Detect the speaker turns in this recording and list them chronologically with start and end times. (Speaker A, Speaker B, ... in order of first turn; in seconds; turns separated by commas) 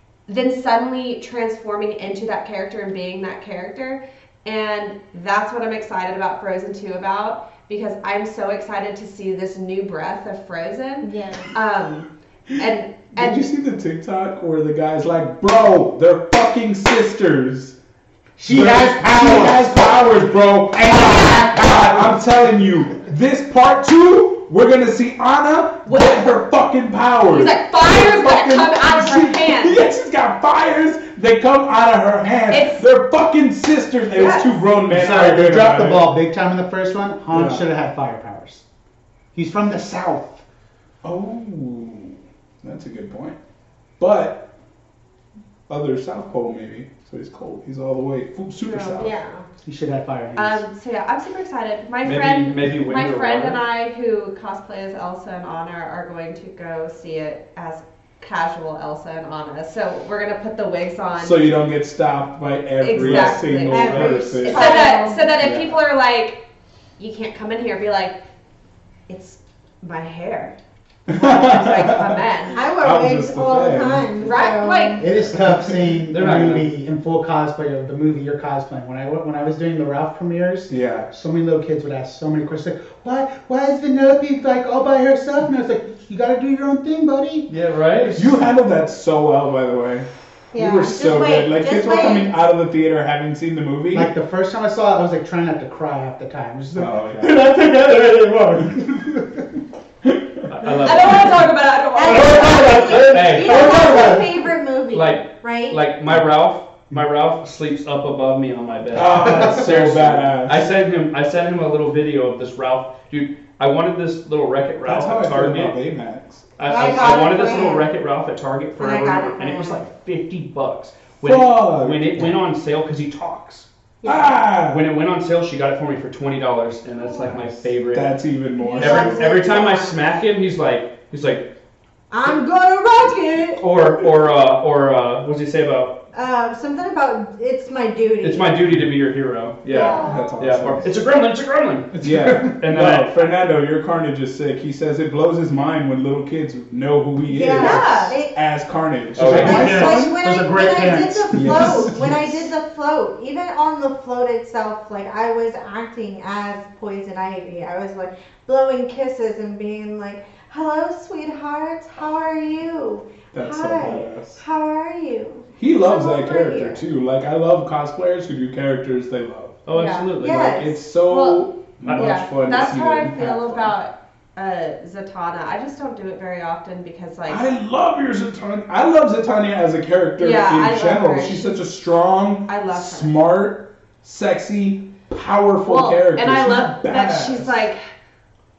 Speaker A: 0.3-13.5, Speaker B: 11.0-11.5, Speaker C: 13.1-17.8, Speaker D: 18.4-20.1, Speaker C: 18.5-36.1, Speaker D: 20.7-22.2, Speaker A: 25.8-26.3, Speaker A: 27.3-29.8, Speaker A: 32.5-32.9, Speaker A: 34.1-34.6, Speaker D: 34.9-38.6, Speaker C: 37.3-37.6, Speaker D: 39.3-40.4, Speaker C: 41.0-43.4, Speaker C: 44.0-44.5, Speaker C: 45.7-49.2, Speaker A: 48.6-49.1, Speaker B: 49.0-49.5, Speaker D: 49.6-50.6, Speaker A: 50.4-61.4, Speaker E: 52.0-53.6, Speaker C: 61.2-65.8, Speaker A: 62.8-66.4, Speaker E: 63.0-63.3, Speaker B: 63.5-65.3, Speaker A: 67.0-68.2, Speaker A: 69.1-70.5, Speaker C: 71.1-72.2, Speaker A: 71.1-72.6, Speaker B: 72.5-75.3, Speaker C: 72.8-74.3, Speaker A: 74.2-75.0, Speaker D: 75.0-87.5, Speaker C: 75.3-75.7, Speaker E: 76.1-76.7, Speaker C: 80.7-81.1, Speaker E: 87.5-88.3, Speaker C: 88.1-94.1, Speaker B: 90.5-92.5, Speaker D: 93.9-99.4, Speaker C: 96.7-97.4, Speaker C: 100.0-100.5, Speaker E: 100.5-101.5, Speaker A: 100.8-103.0, Speaker B: 101.9-105.8, Speaker D: 102.0-104.4, Speaker E: 102.8-104.0, Speaker E: 104.9-115.8, Speaker C: 108.9-110.7, Speaker D: 109.0-109.6, Speaker C: 114.8-117.2, Speaker E: 116.6-123.7, Speaker B: 116.7-117.9, Speaker B: 118.8-119.8, Speaker C: 121.2-122.3, Speaker B: 124.0-124.4, Speaker C: 124.0-124.8, Speaker E: 124.7-128.1, Speaker B: 127.0-127.4, Speaker C: 127.3-129.3, Speaker B: 128.6-130.1, Speaker E: 128.8-131.5, Speaker B: 132.1-133.6, Speaker E: 133.6-136.0, Speaker B: 136.1-138.6, Speaker E: 138.2-143.1, Speaker B: 139.7-140.4, Speaker C: 139.8-140.9, Speaker C: 142.0-150.2, Speaker B: 147.3-148.3, Speaker A: 147.5-148.2, Speaker E: 149.2-149.8, Speaker D: 149.2-152.1, Speaker B: 149.2-166.8, Speaker C: 151.3-152.5, Speaker C: 163.3-164.4, Speaker C: 165.6-169.6, Speaker E: 169.7-170.6, Speaker A: 169.7-170.1, Speaker B: 170.2-170.8, Speaker C: 170.2-173.7, Speaker A: 171.1-177.4, Speaker E: 171.8-172.1, Speaker C: 177.3-187.7, Speaker A: 180.2-181.6, Speaker A: 182.5-183.2, Speaker A: 185.6-187.8